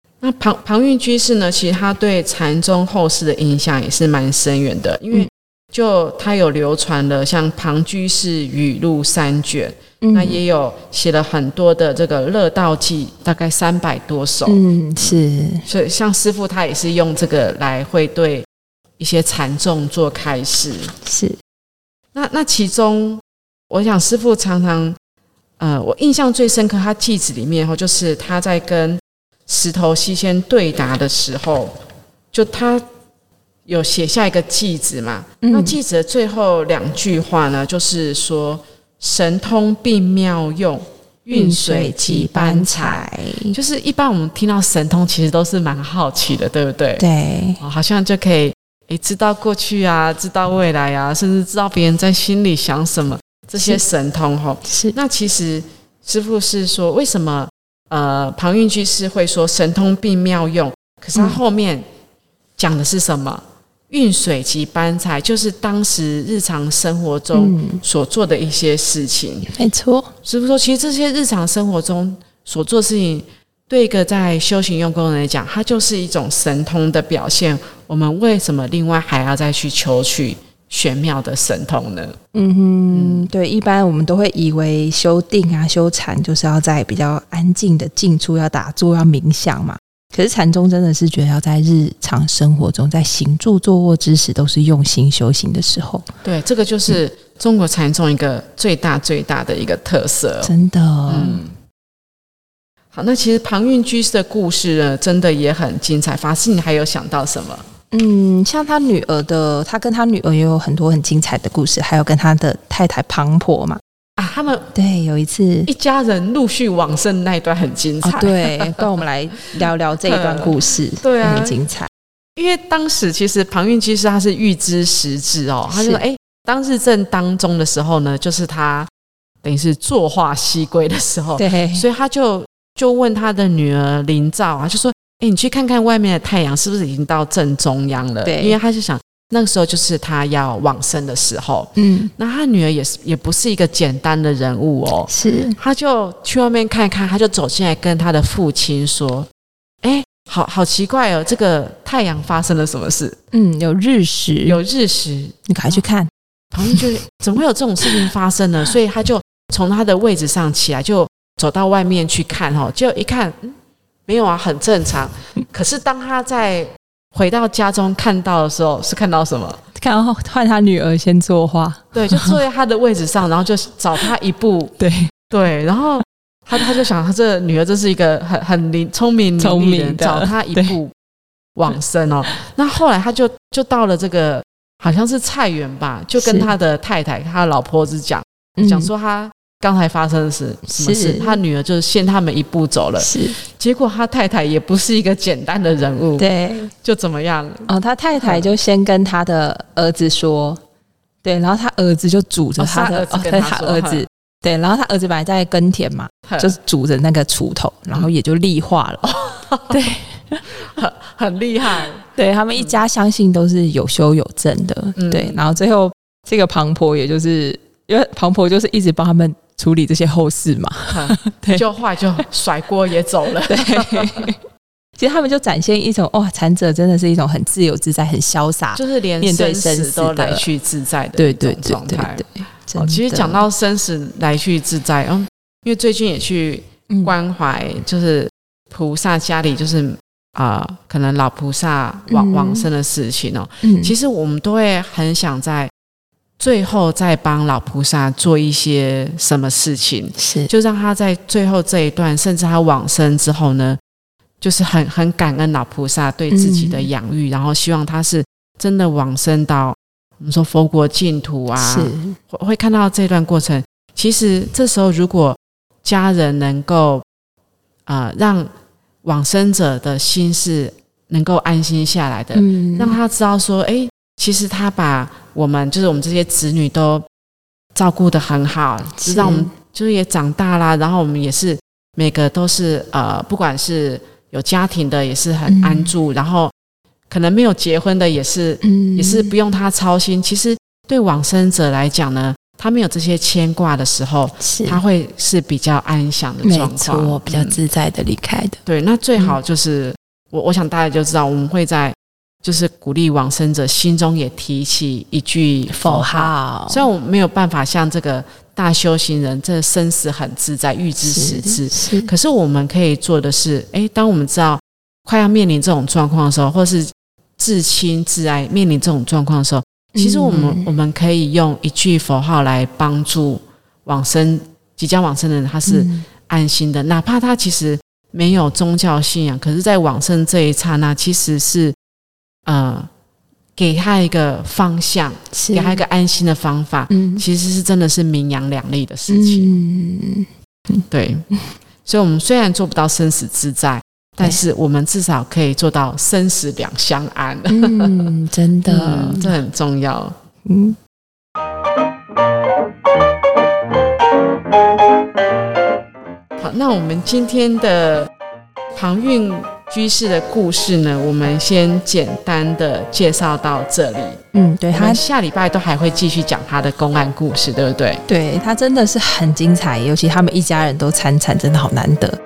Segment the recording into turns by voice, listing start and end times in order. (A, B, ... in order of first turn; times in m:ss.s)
0:00.2-0:18.5 A
0:10.0-0:10.4 B
0:14.5-0:15.7 B
0:19.0-0:20.9 A
0:21.0-0:21.4 B
0:22.1-0:25.0 A
0:25.6-0:31.8 A
0:32.3-0:32.8 A
0:33.7-0:47.0 A
0:35.4-0:35.8 B
0:41.3-0:43.6 B
0:47.0-0:47.6 B
0:47.6-1:01.8 A
0:53.6-0:53.8 B
0:54.7-0:55.0 B
1:02.6-1:09.5 A
1:07.3-1:07.8 B
1:09.5-1:10.1 B
1:10.2-1:22.2 A
1:22.3-1:36.0 B
1:22.9-1:23.3 A
1:36.2-1:40.5 A
1:40.4-1:41.4 B
1:41.1-1:41.5 A
1:42.9-1:47.6 A
1:47.9-1:53.8 B
1:54.2-1:54.7 A
1:54.8-1:55.7 B
1:55.7-1:58.9 A
1:58.0-2:01.9 B
2:00.0-2:01.6 A
2:02.4-2:08.9 A
2:05.7-2:06.0 B
2:09.4-2:29.3 A
2:11.4-2:11.9 B
2:18.2-2:18.6 B
2:21.8-2:22.1 B
2:25.1-2:25.6 B
2:29.8-2:33.2 A
2:33.3-2:34.6 B
2:34.4-2:35.8 A
2:35.5-2:36.1 B
2:36.5-2:43.6 A
2:44.1-2:49.6 A
2:49.8-2:52.4 B
2:51.9-2:54.7 A
2:54.8-2:55.1 B
2:55.3-3:00.9 A
2:59.4-3:00.8 B
3:01.6-3:16.3 A
3:06.2-3:06.5 B
3:08.6-3:08.9 B
3:10.7-3:11.4 B
3:13.0-3:13.4 B
3:16.2-3:16.7 B
3:16.8-3:18.5 A
3:17.7-3:20.6 B
3:21.2-3:30.4 B
3:22.6-3:24.1 A
3:26.3-3:26.6 A
3:29.1-3:29.8 A
3:30.5-3:32.0 A
3:32.0-3:41.7 B
3:35.0-3:35.5 A
3:40.9-3:44.3 A
3:43.5-3:44.4 B
3:45.0-3:50.5 B
3:48.7-4:05.7 A
3:51.2-3:53.4 B
3:56.9-3:57.2 B
4:02.1-4:02.7 B
4:03.6-4:04.0 B
4:06.4-4:13.8 A
4:10.2-4:10.5 B
4:14.4-4:27.0 A
4:16.3-4:16.9 B
4:21.6-4:22.2 B
4:27.9-4:28.5 A
4:29.0-4:37.1 A
4:32.3-4:33.0 B
4:37.8-4:46.5 A
4:39.0-4:39.5 B
4:45.5-4:45.9 B
4:47.1-4:57.6 A
4:48.6-4:49.3 B
4:54.4-4:54.8 B
4:56.4-4:58.6 B
4:58.6-5:31.8 A
5:05.8-5:06.8 B
5:11.0-5:12.1 B
5:20.0-5:20.7 B
5:25.7-5:26.1 B
5:32.5-5:32.9 A
5:33.6-5:39.5 A
5:35.3-5:35.8 B
5:36.9-5:37.2 B
5:39.1-5:40.8 B
5:40.9-5:41.3 A
5:41.8-5:48.1 A
5:47.5-5:49.4 B
5:48.7-5:50.2 A
5:50.4-5:50.8 B
5:56.4-5:58.1 A
5:58.8-6:04.2 A
6:04.3-6:05.0 B
6:04.7-6:08.0 A
6:08.1-6:12.2 B